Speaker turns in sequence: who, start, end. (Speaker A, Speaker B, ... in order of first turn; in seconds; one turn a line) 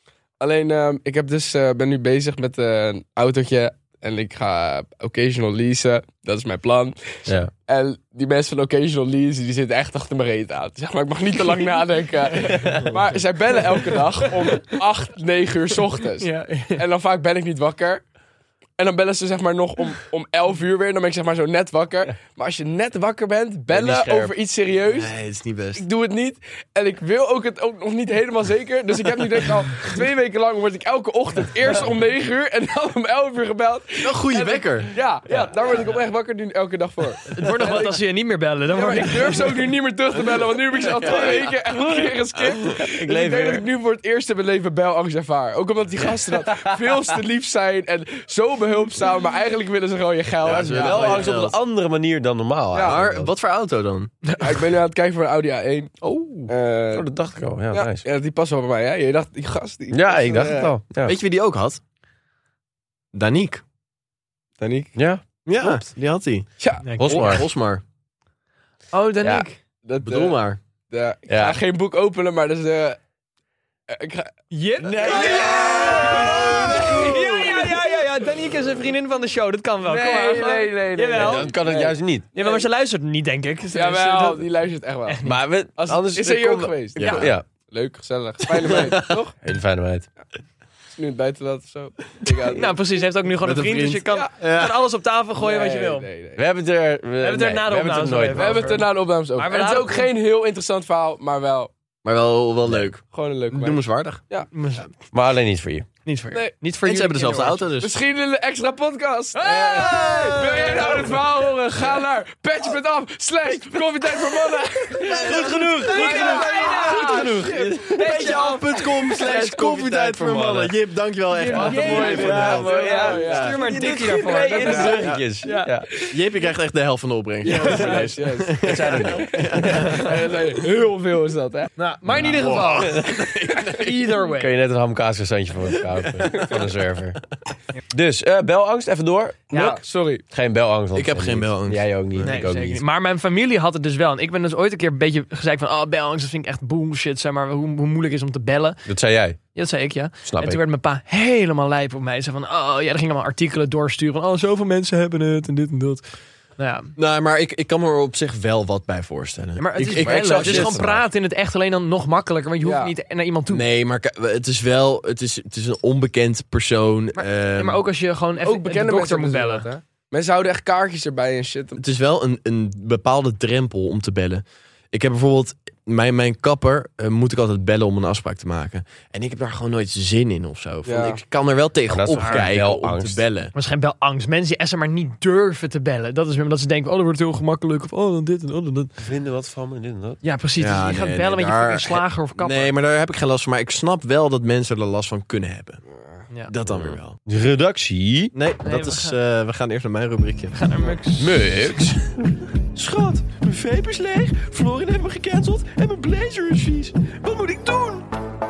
Speaker A: 0.4-18.0
Speaker B: 16.2-16.8
Speaker A: 18.8-25.1
Speaker C: 23.7-24.4
Speaker D: 24.9-25.8
Speaker A: 25.7-38.0
Speaker D: 34.0-34.9
Speaker B: 37.3-39.6
Speaker A: 38.7-51.4
Speaker C: 41.0-41.5
Speaker D: 41.0-41.4
Speaker C: 42.8-43.6
Speaker C: 46.3-46.9
Speaker D: 50.4-51.5
Speaker C: 50.4-53.3
Speaker A: 52.7-53.0
Speaker D: 52.8-54.1
Speaker B: 54.2-54.5
Speaker A: 54.4-55.9
Speaker D: 56.0-56.5
Speaker A: 56.5-57.1
Speaker C: 56.9-58.0
Speaker A: 57.7-60.7
Speaker C: 59.9-61.1
Speaker D: 61.0-61.8
Speaker D: 63.1-63.6
Speaker A: 64.6-64.9
Speaker C: 64.9-65.8
Speaker D: 65.4-67.8
Speaker A: 66.6-66.8
Speaker B: 66.8-67.3
Speaker C: 67.0-67.5
Speaker B: 68.9-69.6
Speaker A: 69.8-70.4
Speaker D: 70.0-70.6
Speaker A: 70.9-73.0
Speaker C: 71.3-71.6
Speaker A: 73.9-74.3
Speaker B: 74.5-81.6
Speaker C: 74.8-77.4
Speaker A: 74.9-77.6
Speaker A: 79.8-82.6
Speaker C: 81.1-82.2
Speaker B: 82.3-84.5
Speaker A: 83.7-85.2
Speaker B: 85.1-85.4
Speaker C: 85.2-87.4
Speaker A: 85.8-89.3
Speaker D: 88.6-89.1
Speaker C: 88.7-90.1
Speaker A: 90.9-92.8
Speaker B: 92.4-96.1
Speaker D: 93.4-94.8
Speaker A: 95.4-96.4
Speaker C: 96.3-98.8
Speaker B: 97.2-100.1
Speaker A: 98.3-101.7
Speaker D: 102.0-104.2
Speaker A: 103.1-104.5
Speaker B: 104.5-104.9
Speaker C: 105.1-105.9
Speaker B: 106.0-107.6
Speaker D: 106.8-108.0
Speaker A: 107.8-117.7
Speaker C: 109.5-110.7
Speaker D: 109.5-111.1
Speaker B: 109.5-110.3
Speaker C: 115.0-120.7
Speaker D: 115.1-123.6
Speaker B: 115.7-118.6
Speaker B: 121.3-125.7
Speaker A: 121.4-123.8
Speaker C: 121.5-125.9
Speaker A: 124.4-125.1
Speaker D: 124.9-125.2
Speaker D: 126.0-130.2
Speaker A: 127.4-131.7
Speaker C: 128.6-130.1
Speaker B: 131.8-134.5
Speaker D: 132.2-133.8
Speaker C: 132.2-133.2
Speaker C: 134.2-137.2
Speaker D: 135.9-136.6
Speaker C: 137.9-139.5
Speaker A: 139.5-140.2
Speaker B: 139.5-139.8
Speaker C: 140.3-142.8
Speaker D: 140.9-142.4
Speaker B: 142.2-148.8
Speaker C: 148.8-149.4
Speaker B: 149.5-155.2
Speaker C: 150.2-150.6
Speaker D: 154.8-156.0
Speaker B: 156.6-156.9
Speaker D: 157.0-160.8
Speaker B: 159.6-163.6
Speaker C: 159.9-161.0
Speaker A: 162.6-162.9
Speaker D: 163.5-167.8
Speaker B: 167.2-169.7
Speaker A: 168.4-171.8
Speaker D: 171.8-183.5
Speaker A: 180.8-181.2
Speaker C: 181.9-183.2
Speaker B: 182.2-182.5
Speaker B: 183.5-187.7
Speaker D: 187.7-188.9
Speaker C: 189.0-190.2
Speaker B: 190.2-192.7
Speaker D: 190.6-195.8
Speaker A: 195.9-196.2
Speaker D: 196.5-197.2
Speaker C: 196.7-198.3
Speaker D: 198.3-200.6
Speaker B: 198.6-199.2
Speaker B: 200.5-201.5
Speaker C: 201.2-202.0
Speaker D: 201.2-202.1
Speaker D: 202.7-208.0